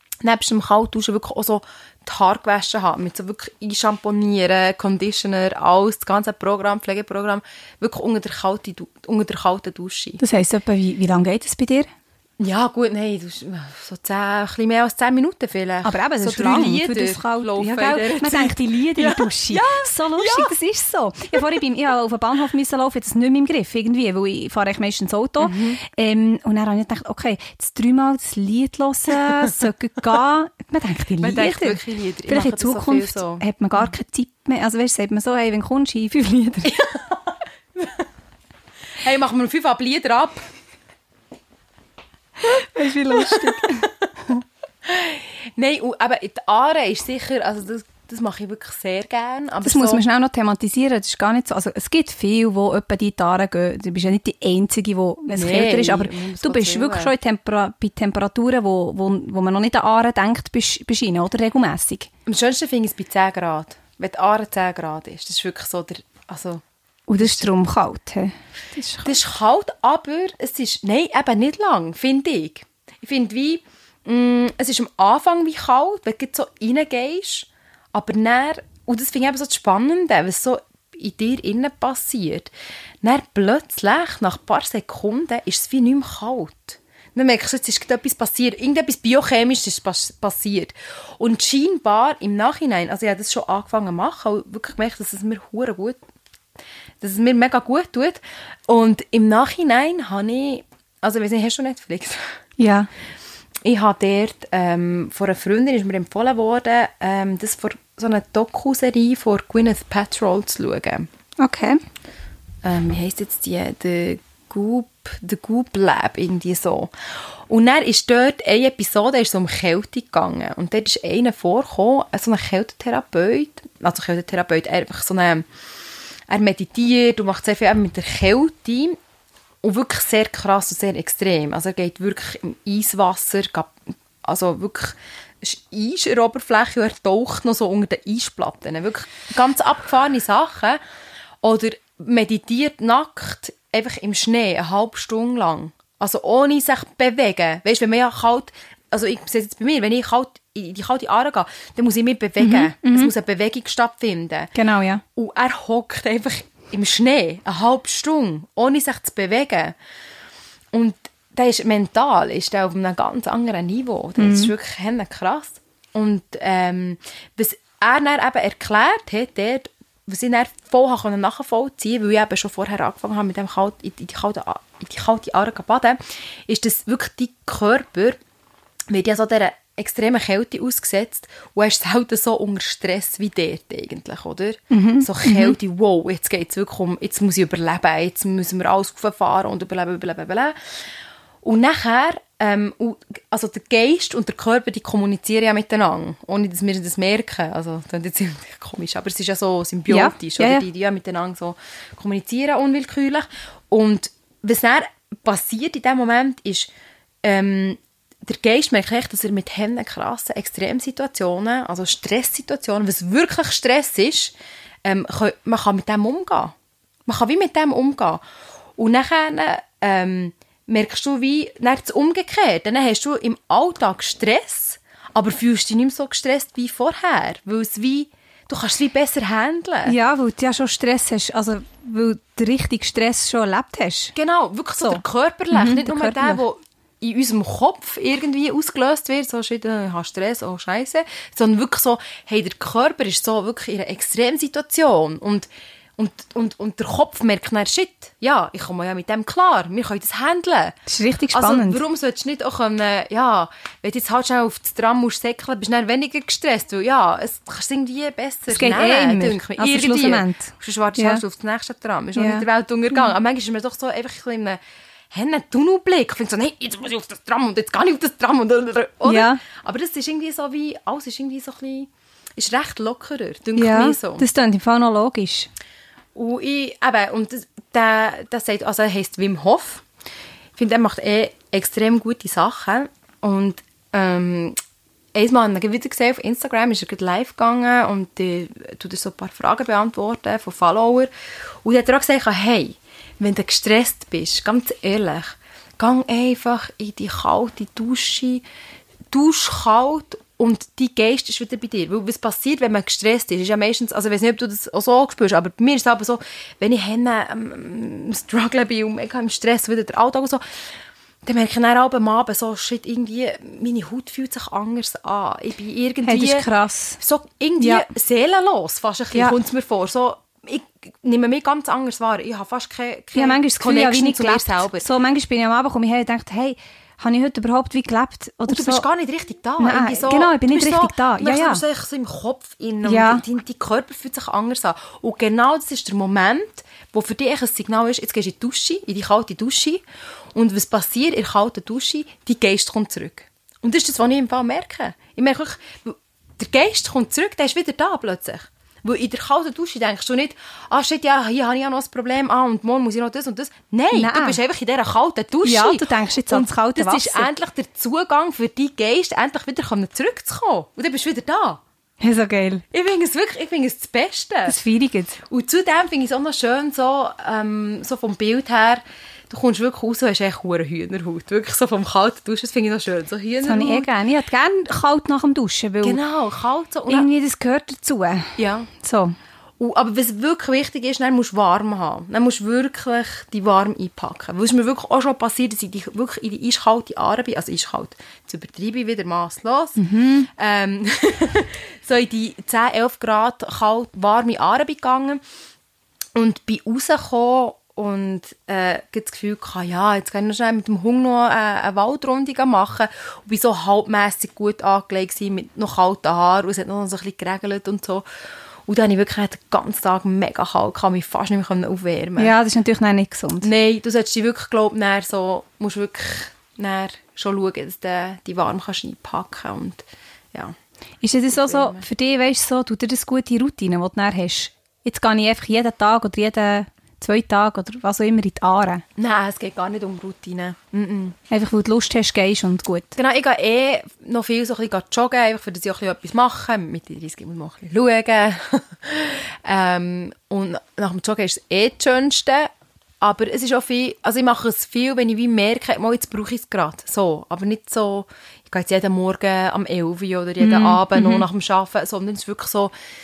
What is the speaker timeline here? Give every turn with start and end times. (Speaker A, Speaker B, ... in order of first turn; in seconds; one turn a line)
Speaker A: 0.2-10.2
Speaker B: 10.2-11.9
Speaker A: 12.4-20.5
Speaker B: 15.8-36.8
Speaker A: 25.4-25.8
Speaker A: 31.2-33.5
Speaker A: 36.7-37.1
Speaker A: 37.8-38.0
Speaker A: 39.0-40.5
Speaker B: 42.4-44.4
Speaker A: 43.2-43.6
Speaker A: 44.9-50.0
Speaker B: 49.6-62.1
Speaker A: 55.3-57.1
Speaker A: 62.3-66.6
Speaker B: 67.1-69.1
Speaker A: 67.2-67.5
Speaker A: 69.0-82.5
Speaker A: 83.0-96.0
Speaker A: 97.0-102.4
Speaker B: 102.6-102.9
Speaker A: 103.7-111.1
Speaker B: 111.4-111.8
Speaker A: 112.6-116.9
Speaker A: 117.5-125.4
Speaker A: 126.3-129.0
Speaker A: 129.6-140.8
Speaker A: 141.4-154.5
Speaker B: 152.4-153.1
Speaker B: 154.6-155.0
Speaker A: 155.2-159.8
Speaker A: 160.7-178.2
Speaker B: 164.2-164.5
Speaker A: 178.9-190.6
Speaker B: 184.7-185.6
Speaker A: 191.4-206.7
Speaker B: 199.9-200.7
Speaker A: 207.2-214.3
Speaker A: 214.8-216.5
Speaker A: 217.1-218.2
Speaker A: 218.8-230.0
Speaker B: 229.9-234.1
Speaker A: 234.2-250.8
Speaker B: 234.8-236.4
Speaker B: 250.9-251.8
Speaker A: 251.3-264.6
Speaker B: 258.5-261.2
Speaker B: 262.1-262.5
Speaker A: 265.1-274.3
Speaker B: 269.1-269.4
Speaker B: 273.6-275.5
Speaker A: 276.1-279.9
Speaker A: 280.6-284.6
Speaker A: 285.1-291.1
Speaker A: 291.6-298.4
Speaker A: 299.1-310.4
Speaker A: 311.2-316.5
Speaker B: 316.1-317.0
Speaker A: 317.0-324.9
Speaker B: 317.6-317.9
Speaker B: 323.1-328.9
Speaker A: 328.5-339.8
Speaker B: 329.6-331.6
Speaker B: 332.8-333.2
Speaker A: 340.4-361.6
Speaker B: 353.9-354.4
Speaker B: 355.4-357.3
Speaker B: 362.0-362.6
Speaker A: 362.7-364.6
Speaker B: 364.5-365.2
Speaker A: 365.2-373.9
Speaker B: 373.4-376.0
Speaker A: 375.8-377.1
Speaker B: 376.9-379.2
Speaker A: 378.4-378.7
Speaker A: 379.6-395.2
Speaker B: 389.8-390.3
Speaker A: 396.1-408.1
Speaker A: 408.7-412.3
Speaker B: 412.2-413.5
Speaker A: 413.4-420.6
Speaker B: 421.0-428.8
Speaker A: 421.3-421.9
Speaker A: 429.0-431.2
Speaker B: 431.3-432.9
Speaker A: 433.0-442.5
Speaker A: 443.0-452.7
Speaker B: 450.4-451.3